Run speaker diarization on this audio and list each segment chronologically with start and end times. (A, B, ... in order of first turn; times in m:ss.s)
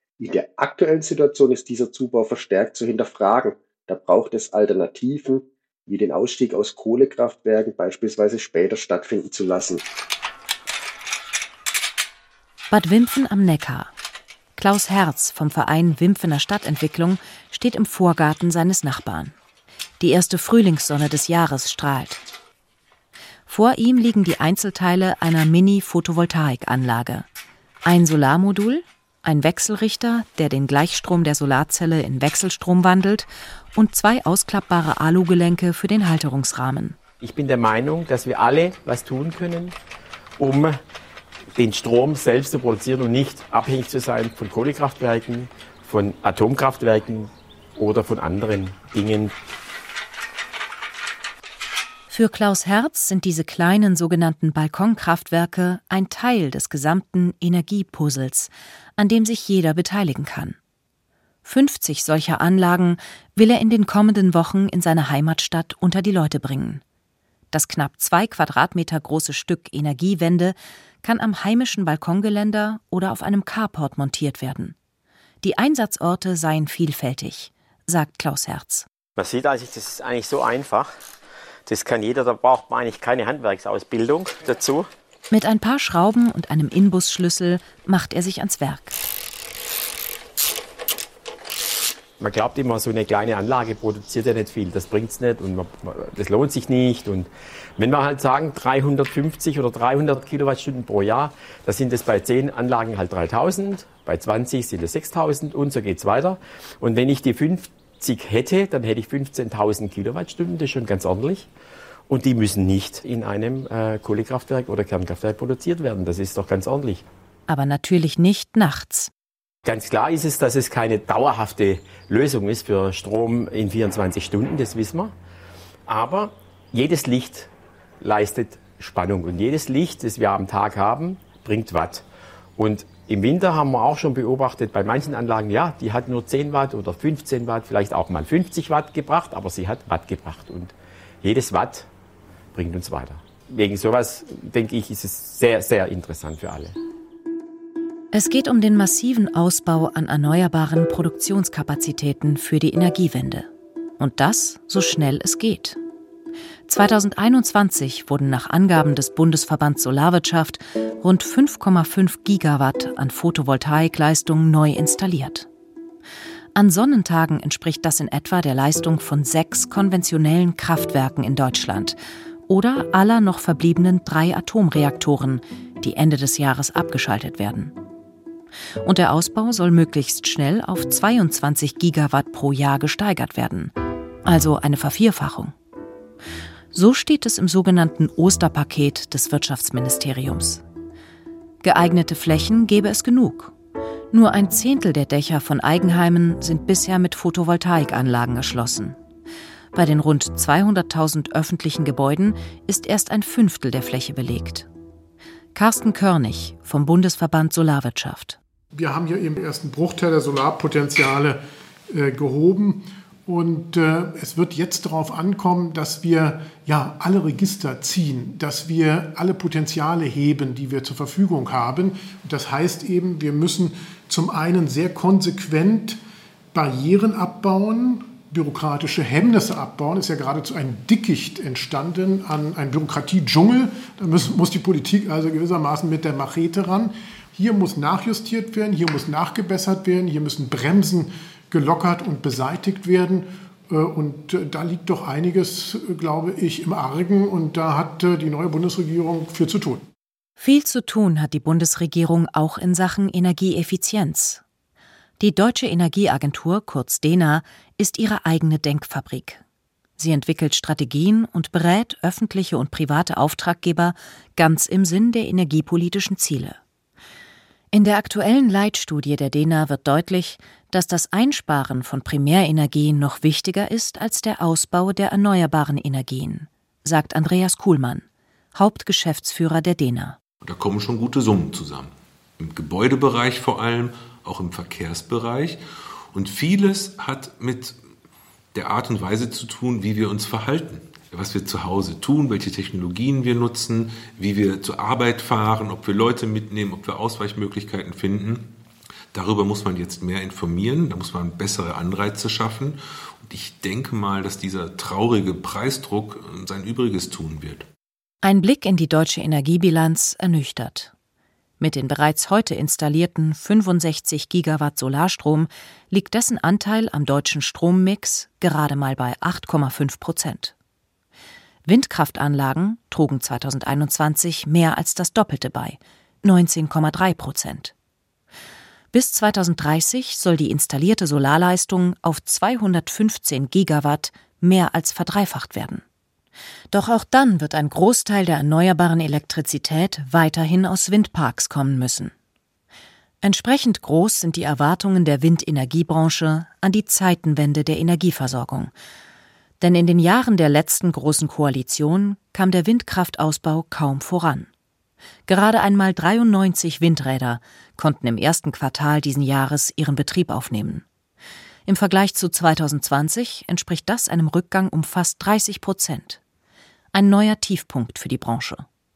0:00.2-0:09.8 A
0:12.7-0:13.9 B
0:14.6-0:19.3 B
0:20.0-0:22.2 B
0:23.5-0:27.3 B
0:27.8-0:37.0 B
0:37.2-0:39.7 C
0:40.4-0:40.8 C
0:41.5-0:49.3 C
0:52.1-1:00.6 B
1:01.4-1:06.8 B
1:07.5-1:14.7 B
1:15.4-1:18.9 B
1:19.2-1:20.9 C
1:21.7-1:24.9 C
1:25.3-1:28.9 B
1:32.2-1:51.5 C
1:52.1-1:57.0 C
1:57.5-1:59.1 B
1:59.6-2:05.1 C
2:05.9-2:07.5 C
2:08.0-2:12.0 C
2:12.6-2:21.9 C
2:22.5-2:26.7 C
2:28.1-2:33.5 B
2:34.0-2:35.8 B
2:36.7-2:45.5 B
2:46.5-2:57.7 B
2:58.8-3:03.7 B
3:04.2-3:05.5 B
3:06.7-3:10.6 B
3:11.6-3:13.5 B
3:14.1-3:19.0 B
3:19.7-3:24.7 B
3:25.5-3:28.4 B
3:28.7-3:46.0 D
3:46.5-4:09.9 D
4:10.4-4:14.4 B
4:15.2-4:19.4 B
4:20.0-4:26.6 B
4:27.7-4:40.2 B
4:40.4-4:45.6 E
4:46.1-4:47.8 E
4:48.5-4:58.5 E
4:59.1-5:07.7 E
5:08.2-5:10.9 B
5:11.6-5:20.5 B
5:21.6-5:27.7 B
5:28.9-5:35.8 B
5:36.7-5:42.1 B
5:43.2-5:48.7 B
5:49.6-5:54.5 B
5:55.3-6:00.8 B
6:01.6-6:06.2 B
6:06.9-6:08.6 B